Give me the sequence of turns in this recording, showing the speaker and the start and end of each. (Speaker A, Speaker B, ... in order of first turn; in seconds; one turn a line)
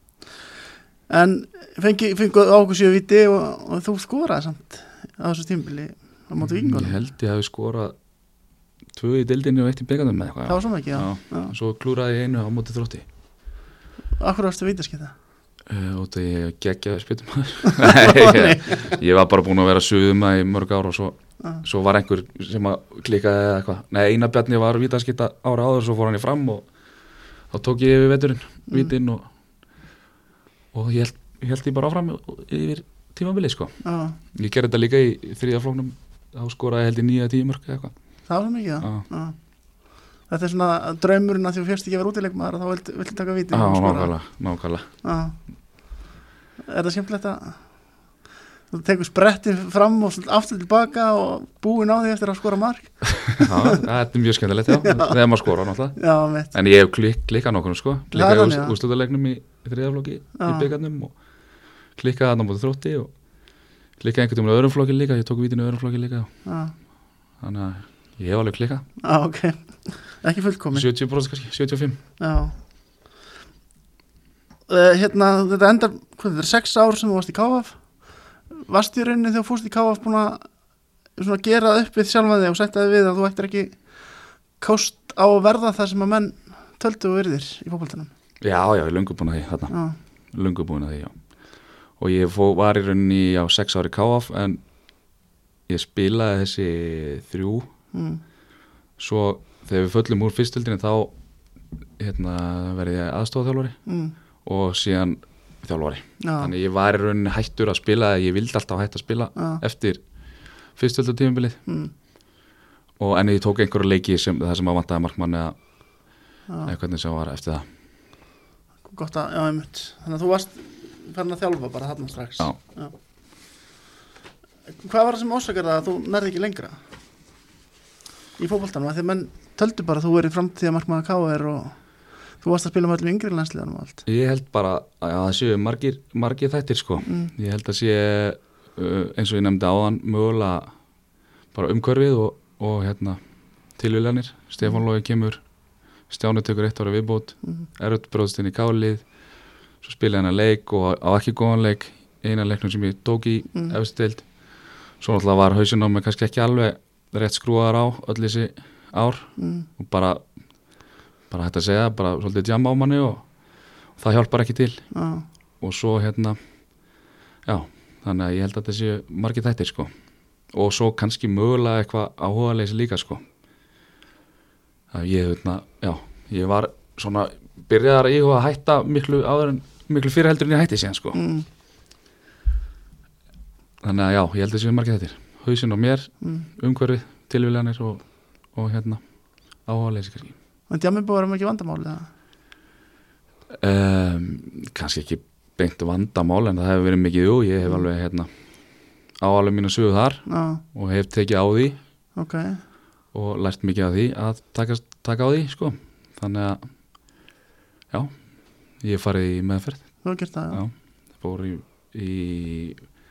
Speaker A: 1.1-7.0
Speaker B: 6.4-8.0
Speaker B: 8.9-13.1
Speaker A: 10.5-11.5
Speaker A: 14.2-15.1
Speaker B: 15.7-26.6
Speaker A: 17.6-19.0
Speaker B: 27.5-29.3
Speaker B: 30.7-33.8
Speaker A: 33.8-34.2
Speaker B: 34.3-37.9
Speaker A: 38.3-44.1
Speaker B: 38.8-39.1
Speaker B: 43.5-44.9
Speaker A: 45.0-45.4
Speaker A: 46.7-48.1
Speaker A: 48.7-53.8
Speaker B: 53.4-61.1
Speaker A: 54.7-55.2
Speaker A: 56.0-56.5
Speaker A: 58.1-58.8
Speaker A: 60.4-60.7
Speaker B: 62.0-63.1
Speaker B: 64.0-66.3
Speaker A: 66.5-66.8
Speaker B: 67.4-68.9
Speaker A: 69.0-70.9
Speaker B: 70.7-72.0
Speaker A: 72.2-72.5
Speaker A: 74.7-80.5
Speaker A: 81.2-88.1
Speaker B: 88.4-89.7
Speaker A: 89.7-90.0
Speaker B: 90.3-91.2
Speaker B: 92.0-94.6
Speaker B: 95.7-97.7
Speaker A: 97.9-98.2
Speaker B: 99.0-101.1
Speaker B: 102.0-103.8
Speaker A: 103.9-104.1
Speaker B: 104.4-110.0
Speaker A: 106.2-106.5
Speaker A: 109.4-109.6
Speaker B: 110.7-111.6
Speaker A: 111.7-111.9
Speaker B: 113.0-115.6
Speaker A: 116.5-116.7
Speaker B: 116.6-117.6
Speaker A: 118.8-122.9
Speaker A: 124.8-126.8
Speaker A: 128.4-131.8
Speaker A: 132.4-134.0
Speaker B: 134.1-140.7
Speaker A: 137.1-137.3
Speaker B: 141.5-143.2
Speaker B: 143.8-145.4
Speaker B: 146.1-149.1
Speaker B: 149.8-154.3
Speaker B: 155.0-160.2
Speaker A: 159.4-159.7
Speaker B: 161.3-163.3
Speaker B: 163.9-164.9
Speaker A: 164.9-165.2
Speaker B: 165.6-166.4
Speaker B: 167.5-169.9
Speaker B: 170.5-173.2
Speaker B: 174.9-181.2
Speaker A: 181.2-181.5
Speaker B: 183.8-189.0
Speaker B: 189.6-190.3
Speaker A: 190.7-192.1
Speaker B: 193.6-201.8
Speaker A: 200.3-200.6
Speaker A: 202.2-202.6
Speaker B: 203.1-206.7
Speaker B: 208.8-212.8
Speaker A: 210.0-210.6